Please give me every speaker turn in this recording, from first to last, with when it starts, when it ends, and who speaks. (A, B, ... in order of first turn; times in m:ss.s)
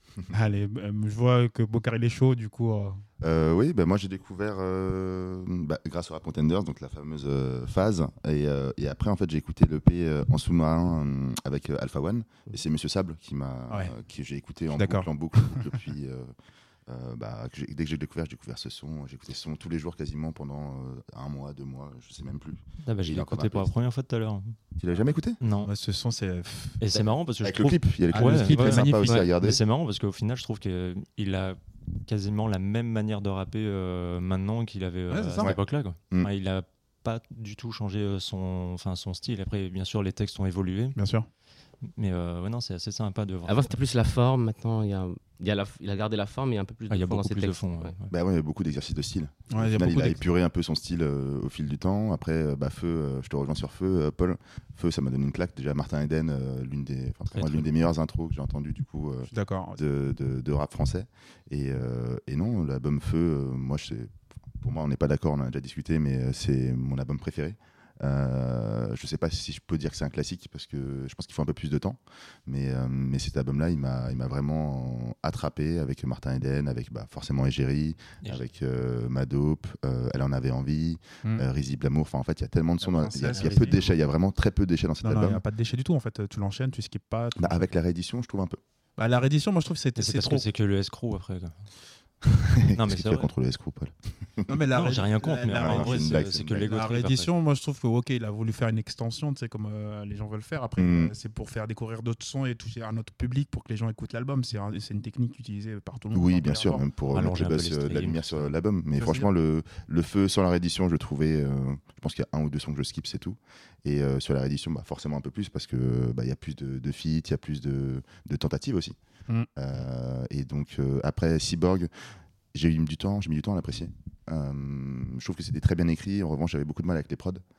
0:00.3-0:03.0 A
0:03.2-0:16.3 B
0:14.7-0:15.7 A
0:16.9-0:23.7 B
0:22.8-0:24.6 C
0:24.8-0:25.4 B
0:25.4-0:25.7 C
0:25.6-0:26.8 A
0:26.8-0:41.0 C
0:27.4-0:29.6 B
0:28.1-0:29.2 A
0:35.1-0:35.5 A
0:35.4-0:36.3 B
0:41.0-0:41.3 A
0:42.0-0:43.7 C
0:43.5-0:47.9 D
0:46.9-0:48.1 C
0:48.1-1:25.4 B
0:49.5-0:50.2 A
0:57.3-0:57.7 C
0:59.3-0:59.8 A
1:22.8-1:23.8 A
1:25.0-1:27.7 A
1:27.4-1:28.6 B
1:29.0-1:30.5 A
1:30.0-1:31.6 C
1:32.4-1:34.6 B
1:32.7-1:33.3 C
1:34.5-1:46.8 A
1:34.7-1:37.3 C
1:35.6-1:36.7 B
1:40.8-1:41.1 B
1:46.1-1:59.0 B
1:47.1-1:48.5 C
1:49.0-1:49.3 A
1:59.6-2:01.9 B
2:02.5-2:07.4 B